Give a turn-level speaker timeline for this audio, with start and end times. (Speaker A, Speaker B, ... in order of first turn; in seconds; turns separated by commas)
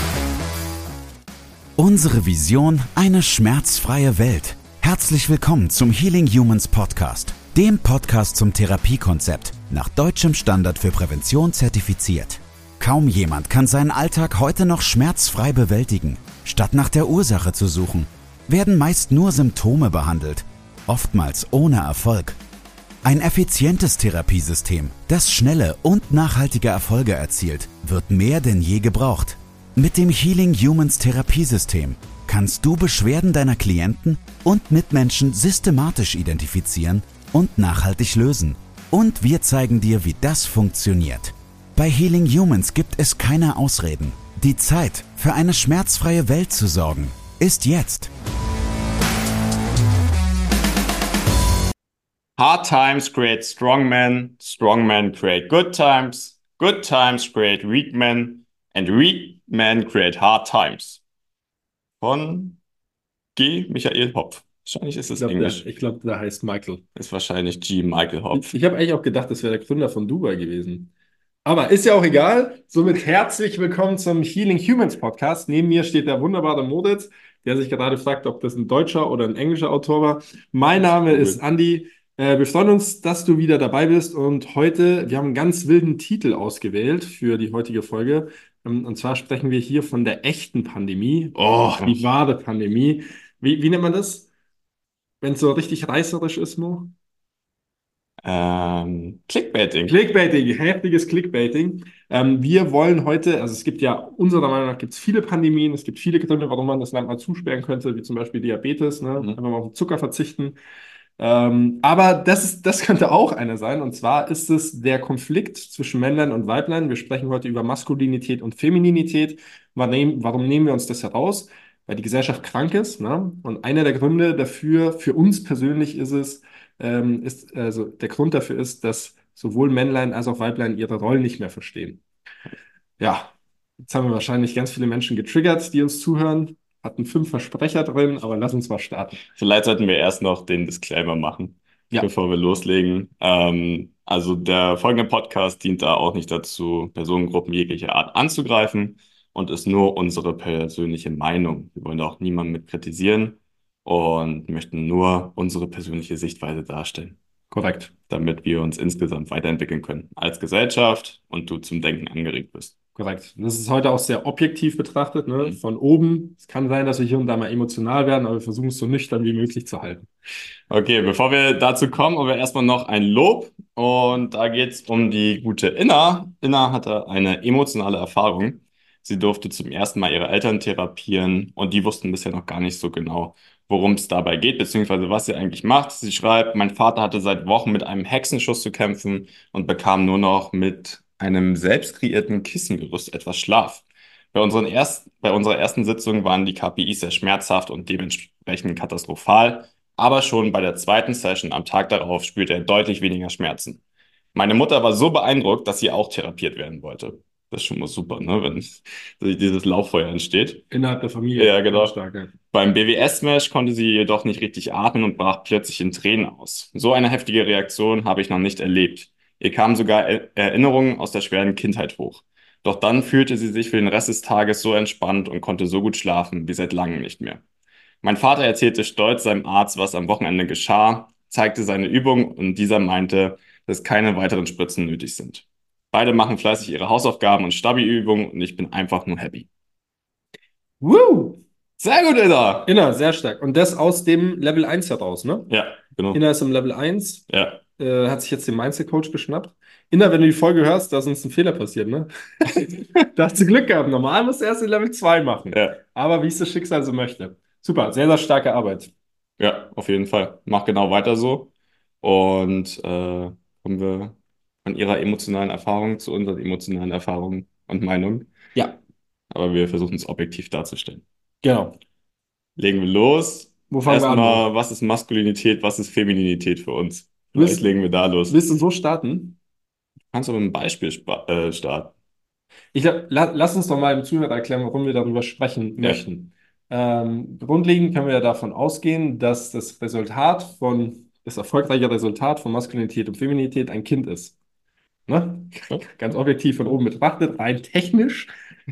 Speaker A: 1.8-22.4, Speaker A: 23.0-48.1, Speaker B: 52.4-61.0, Speaker B: 62.0-62.6, Speaker B: 63.4-65.6, Speaker C: 65.2-66.8, Speaker B: 66.9-68.4, Speaker C: 68.3-70.9, Speaker C: 71.4-94.3, Speaker B: 80.8-81.4, Speaker B: 91.3-92.0, Speaker C: 95.2-96.9, Speaker B: 98.2-100.0, Speaker C: 99.9-110.6, Speaker C: 111.2-132.0, Speaker C: 133.0-139.2, Speaker B: 139.3-157.2, Speaker C: 157.5-157.9, Speaker B: 158.1-162.7, Speaker C: 162.9-170.1, Speaker B: 170.7-193.8, Speaker B: 194.3-203.8, Speaker B: 204.3-210.7, Speaker C: 210.7-212.3, Speaker B: 211.3-211.9, Speaker B: 212.5-227.4, Speaker B: 228.0-239.5, Speaker C: 240.8-241.4, Speaker B: 241.8-242.7, Speaker C: 242.7-245.5, Speaker B: 245.5-246.2, Speaker C: 246.1-247.3, Speaker B: 247.3-247.6, Speaker C: 247.8-258.9, Speaker B: 255.5-255.8, Speaker B: 259.4-261.5, Speaker B: 262.0-268.3, Speaker B: 269.3-271.0, Speaker C: 271.4-271.8, Speaker B: 272.6-278.4, Speaker C: 273.7-274.4, Speaker C: 277.4-277.6, Speaker C: 278.3-279.4, Speaker B: 280.1-281.9, Speaker C: 282.7-294.4, Speaker C: 295.1-298.3